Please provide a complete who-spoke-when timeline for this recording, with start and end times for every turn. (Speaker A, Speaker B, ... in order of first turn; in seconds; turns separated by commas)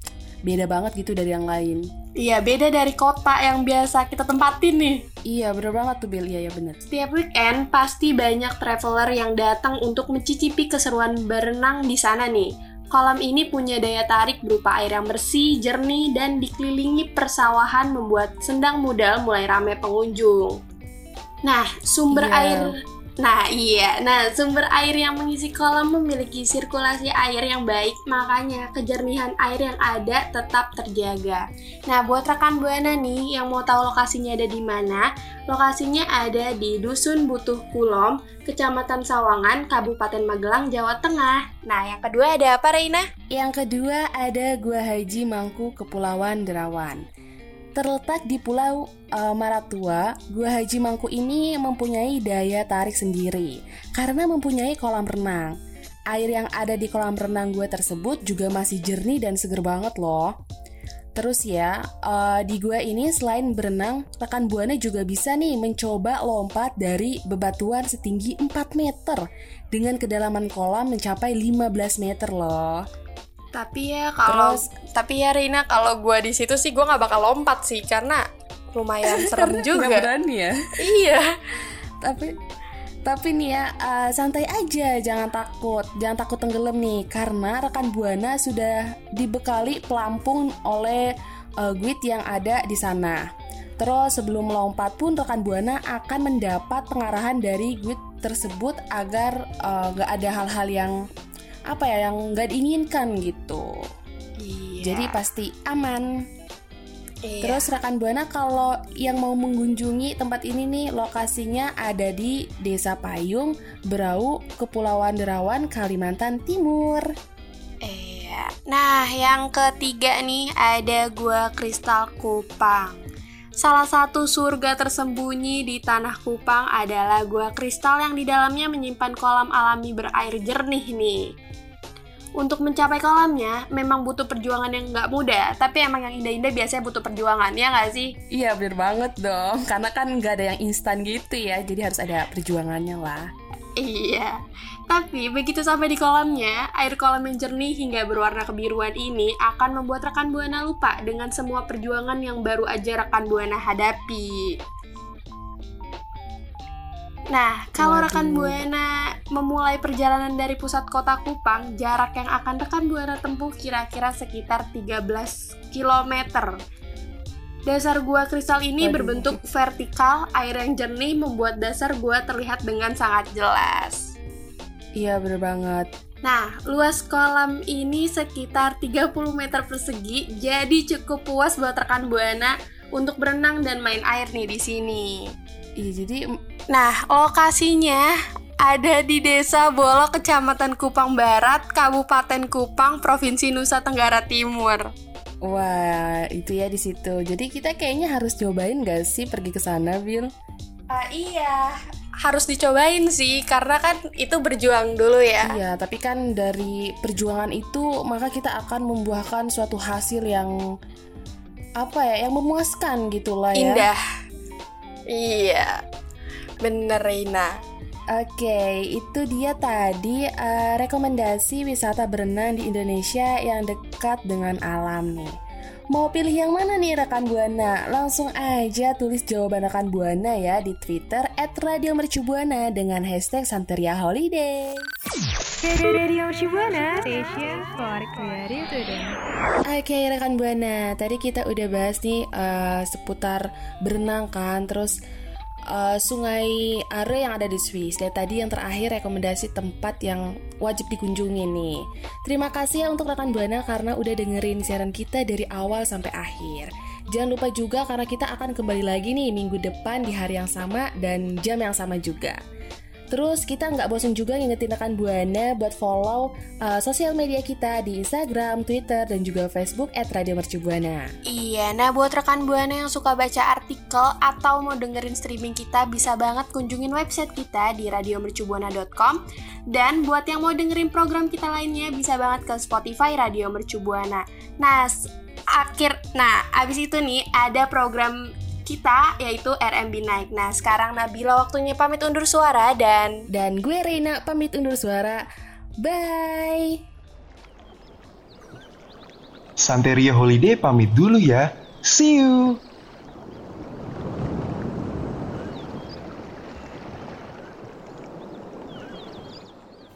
Speaker A: 0.5-1.8, Speaker B: 2.2-5.0, Speaker A: 5.3-6.8, Speaker B: 6.9-20.6, Speaker B: 21.4-43.0, Speaker A: 22.1-22.7, Speaker A: 43.3-47.0, Speaker A: 47.8-55.5, Speaker A: 56.1-60.3, Speaker A: 61.2-69.2, Speaker A: 69.7-72.8, Speaker B: 73.5-78.2, Speaker A: 74.3-74.6, Speaker B: 78.7-80.1, Speaker A: 79.1-80.5, Speaker B: 80.8-81.3, Speaker A: 82.0-82.3, Speaker A: 83.1-91.1, Speaker A: 91.6-93.2, Speaker A: 93.8-101.0, Speaker A: 101.7-103.7, Speaker B: 104.4-105.2, Speaker A: 104.8-106.1, Speaker B: 107.2-107.7, Speaker A: 107.4-117.1, Speaker B: 117.8-123.0, Speaker B: 123.6-131.2, Speaker B: 132.4-138.1, Speaker A: 138.3-143.3, Speaker B: 143.8-144.3, Speaker B: 144.9-154.5, Speaker B: 157.3-166.5, Speaker A: 157.8-158.6, Speaker B: 167.7-174.1, Speaker A: 168.8-169.4, Speaker A: 175.0-175.9, Speaker B: 176.2-185.2, Speaker A: 185.8-186.2, Speaker B: 186.7-188.0, Speaker B: 188.6-194.9, Speaker A: 195.4-200.3, Speaker B: 200.9-201.7, Speaker B: 202.2-205.5, Speaker A: 205.4-210.5, Speaker A: 211.8-213.9, Speaker B: 213.6-214.0, Speaker B: 215.1-215.8, Speaker B: 216.6-217.5, Speaker A: 218.1-225.3, Speaker A: 225.9-234.9, Speaker C: 235.6-239.2, Speaker A: 239.7-244.9, Speaker A: 245.7-262.4, Speaker A: 263.1-271.1, Speaker B: 271.3-279.2, Speaker B: 279.7-284.9, Speaker B: 285.5-293.2, Speaker A: 293.3-295.2, Speaker A: 295.8-296.8, Speaker D: 299.6-302.6